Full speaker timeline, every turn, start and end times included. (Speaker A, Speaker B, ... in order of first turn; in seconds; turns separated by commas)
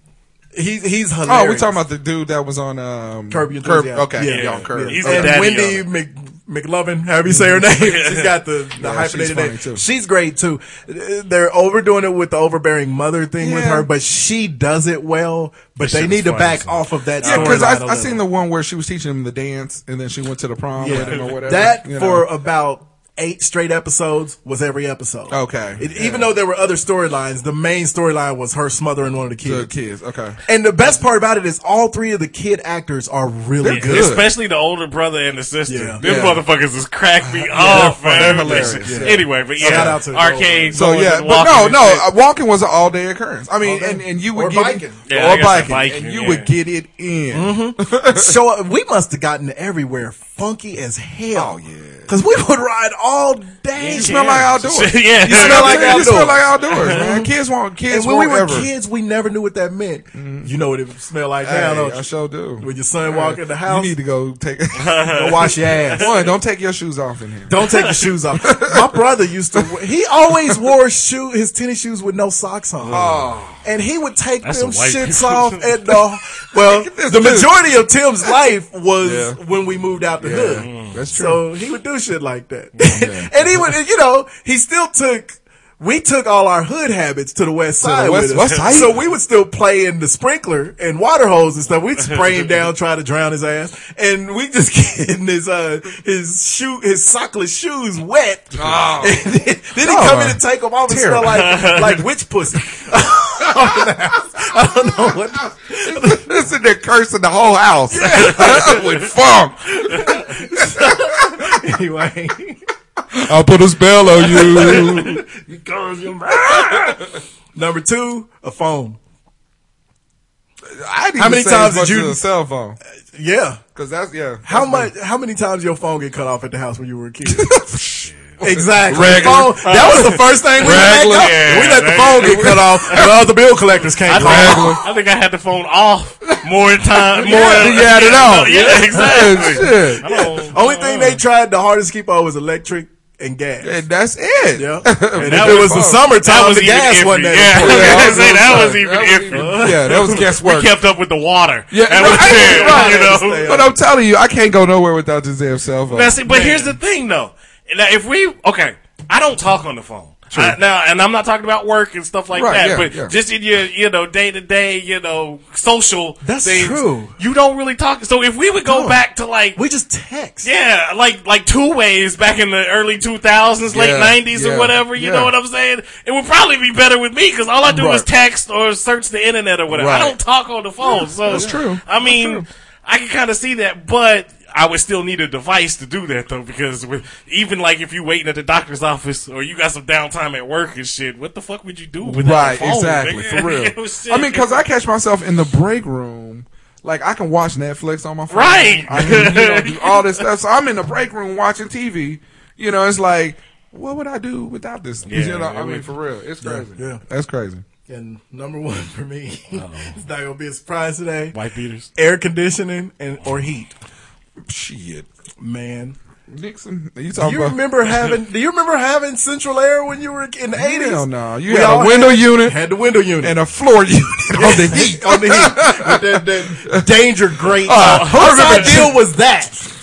Speaker A: 0.5-1.8, Speaker B: 1.3-5.5, Speaker A: 3.3-18.2, Speaker C: 4.2-5.9, Speaker B: 7.3-7.6, Speaker C: 7.7-8.4, Speaker B: 8.8-9.8, Speaker B: 13.4-13.9, Speaker C: 15.8-17.7, Speaker B: 17.2-22.3, Speaker A: 20.8-29.7, Speaker C: 20.9-21.3, Speaker B: 25.3-26.3, Speaker B: 29.4-30.4, Speaker A: 30.5-34.1, Speaker B: 33.6-34.3, Speaker C: 33.7-42.1, Speaker A: 35.7-36.0, Speaker B: 36.0-36.5, Speaker B: 37.2-40.0, Speaker A: 37.7-40.8, Speaker B: 40.7-48.4, Speaker A: 43.6-45.0, Speaker C: 45.1-46.5, Speaker A: 47.3-54.2, Speaker B: 51.3-52.1, Speaker C: 53.8-57.1, Speaker B: 53.9-58.7, Speaker A: 55.3-57.3, Speaker A: 57.9-62.0, Speaker B: 60.1-60.5, Speaker B: 61.4-65.1, Speaker A: 62.6-63.9, Speaker C: 64.8-66.3, Speaker A: 65.1-66.1, Speaker B: 65.9-67.6, Speaker A: 67.5-106.3, Speaker B: 68.4-69.0, Speaker C: 72.8-73.3, Speaker B: 72.9-73.6, Speaker C: 74.4-76.0, Speaker B: 76.5-77.6, Speaker B: 79.0-79.4, Speaker B: 80.2-81.4, Speaker C: 80.6-81.0, Speaker B: 82.9-83.6, Speaker B: 87.8-89.0, Speaker C: 88.4-88.9, Speaker B: 98.6-99.2, Speaker B: 99.8-101.5, Speaker C: 101.3-102.0, Speaker B: 105.8-111.3, Speaker A: 107.9-108.8, Speaker C: 108.2-108.9, Speaker A: 109.7-112.6, Speaker B: 113.1-115.3, Speaker A: 114.2-117.0, Speaker C: 114.4-115.1, Speaker B: 116.3-117.0, Speaker A: 117.5-119.0, Speaker B: 120.7-122.8, Speaker A: 121.2-122.2, Speaker A: 123.1-123.6, Speaker B: 123.8-124.9, Speaker A: 124.5-127.5, Speaker B: 127.3-133.2, Speaker A: 128.4-134.8, Speaker C: 129.1-133.2, Speaker C: 134.0-141.2, Speaker B: 134.1-134.8, Speaker B: 136.9-140.1, Speaker A: 139.0-143.8, Speaker B: 143.6-146.1, Speaker A: 144.6-148.5, Speaker C: 145.2-153.6, Speaker B: 147.5-150.8, Speaker A: 149.3-150.0, Speaker B: 151.7-156.2, Speaker A: 152.0-153.8, Speaker C: 155.9-169.6, Speaker A: 156.3-156.8, Speaker B: 160.3-160.6, Speaker B: 162.3-163.2, Speaker A: 166.2-167.2, Speaker A: 168.7-169.0, Speaker A: 169.6-170.5, Speaker C: 170.4-194.6, Speaker B: 173.7-175.3, Speaker A: 177.7-178.0, Speaker B: 179.7-180.2, Speaker B: 180.9-182.5, Speaker B: 192.0-207.6, Speaker C: 198.3-200.2, Speaker C: 205.1-205.9, Speaker A: 206.4-207.0, Speaker A: 207.9-211.3, Speaker C: 209.5-210.0, Speaker C: 211.3-211.9, Speaker A: 212.0-213.7, Speaker B: 214.5-215.1, Speaker A: 215.4-216.0, Speaker B: 216.3-217.6, Speaker A: 217.2-223.4, Speaker B: 220.6-222.6, Speaker B: 223.2-226.9, Speaker A: 224.3-229.6, Speaker B: 227.6-228.9, Speaker C: 227.7-228.9